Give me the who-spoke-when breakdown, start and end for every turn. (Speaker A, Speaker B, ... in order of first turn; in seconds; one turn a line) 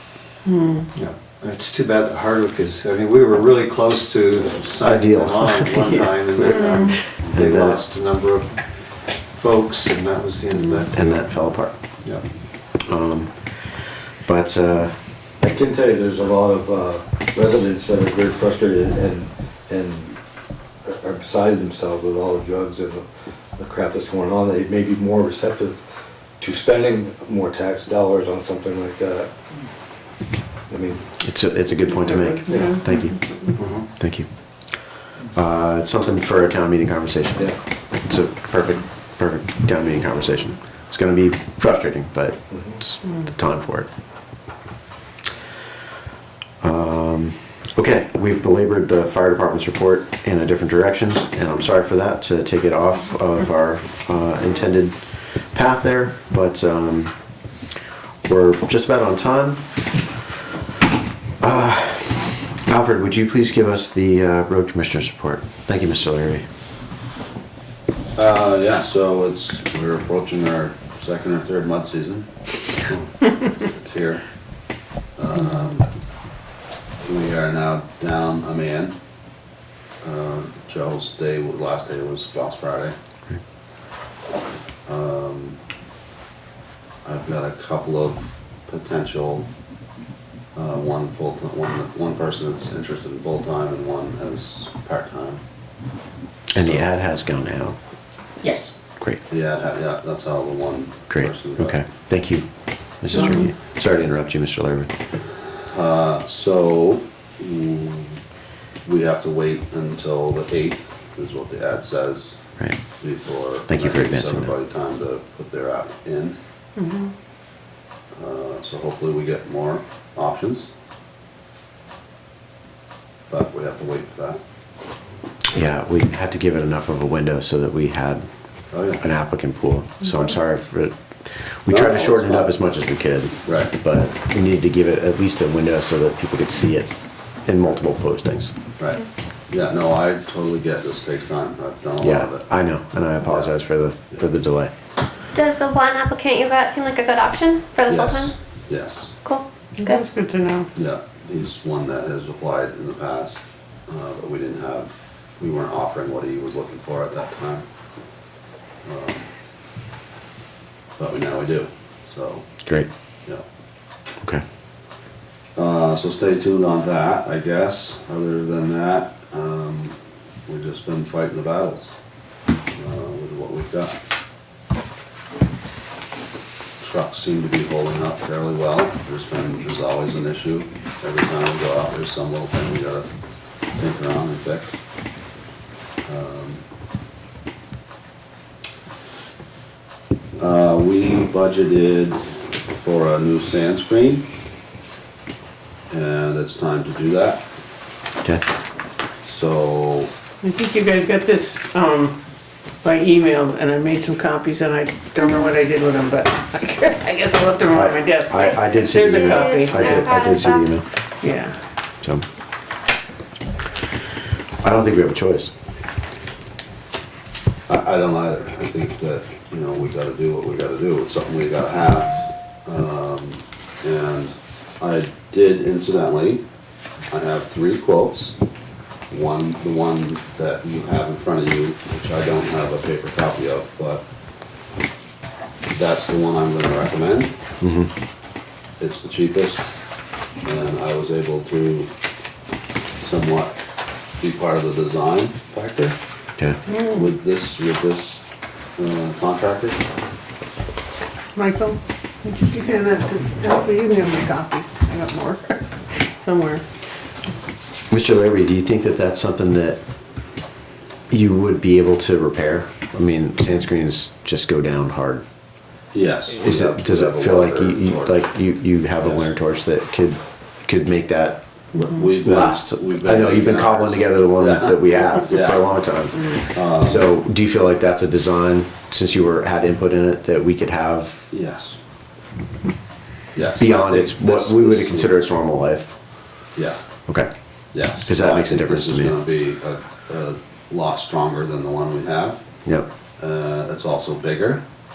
Speaker A: 0.5-0.9
Speaker B: 0.9-12.2
Speaker C: 4.8-7.8
Speaker A: 6.5-7.0
Speaker D: 6.6-6.9
Speaker A: 10.5-10.9
Speaker C: 10.9-11.8
Speaker C: 12.8-15.1
Speaker E: 15.4-20.2
Speaker E: 20.9-23.0
Speaker E: 23.6-25.8
Speaker E: 26.4-29.3
Speaker E: 30.7-31.0
Speaker C: 31.2-33.2
Speaker A: 32.0-33.6
Speaker E: 32.5-32.8
Speaker B: 33.6-33.9
Speaker C: 33.8-34.3
Speaker C: 35.0-43.9
Speaker C: 46.6-57.1
Speaker C: 58.3-59.6
Speaker C: 61.4-66.5
Speaker F: 68.2-72.3
Speaker F: 72.9-74.2
Speaker F: 75.2-75.9
Speaker F: 77.0-79.0
Speaker F: 80.0-83.0
Speaker F: 84.9-85.6
Speaker F: 87.0-89.5
Speaker F: 90.5-95.4
Speaker C: 96.5-97.8
Speaker F: 96.6-96.9
Speaker F: 99.3-101.8
Speaker C: 101.1-104.9
Speaker A: 103.2-103.4
Speaker F: 105.7-108.2
Speaker F: 108.8-112.4
Speaker F: 113.0-116.4
Speaker C: 113.7-114.5
Speaker A: 116.8-117.1
Speaker F: 118.2-120.7
Speaker F: 123.3-124.4
Speaker C: 125.5-136.9
Speaker F: 128.7-129.0
Speaker F: 131.7-132.6
Speaker F: 133.4-133.7
Speaker C: 137.4-138.5
Speaker F: 138.8-142.5
Speaker C: 142.0-144.7
Speaker F: 143.2-143.6
Speaker D: 145.3-148.3
Speaker F: 147.9-149.2
Speaker D: 149.2-150.0
Speaker A: 149.8-150.7
Speaker F: 150.8-157.7
Speaker F: 158.8-159.3
Speaker F: 161.0-162.5
Speaker C: 164.2-164.4
Speaker F: 165.6-170.0
Speaker F: 170.5-171.9
Speaker F: 172.8-174.0
Speaker F: 176.8-183.1
Speaker F: 183.8-184.8
Speaker F: 186.1-186.6
Speaker F: 190.4-194.3
Speaker F: 195.9-197.4
Speaker F: 199.2-200.1
Speaker A: 200.4-202.2
Speaker A: 202.8-210.1
Speaker C: 207.7-210.9
Speaker D: 209.1-210.7
Speaker A: 211.2-211.6
Speaker C: 214.6-215.5
Speaker F: 217.7-222.2
Speaker F: 222.7-226.4
Speaker F: 227.1-228.3
Speaker F: 229.1-234.0
Speaker F: 235.7-237.3
Speaker C: 237.6-237.9
Speaker F: 238.8-239.7
Speaker F: 240.4-241.9
Speaker F: 243.0-243.6
Speaker F: 244.2-246.0
Speaker A: 246.7-247.1
Speaker F: 246.9-248.3
Speaker F: 248.8-249.8
Speaker A: 251.3-256.6
Speaker C: 257.9-259.8
Speaker C: 261.1-265.2
Speaker F: 265.9-268.3
Speaker C: 266.3-271.5
Speaker F: 269.0-269.3
Speaker F: 271.7-275.7
Speaker C: 272.2-281.3
Speaker F: 276.5-277.1
Speaker F: 281.3-281.8
Speaker F: 283.3-285.2
Speaker C: 283.6-285.9
Speaker F: 287.7-292.4
Speaker C: 288.0-289.2
Speaker F: 293.2-294.6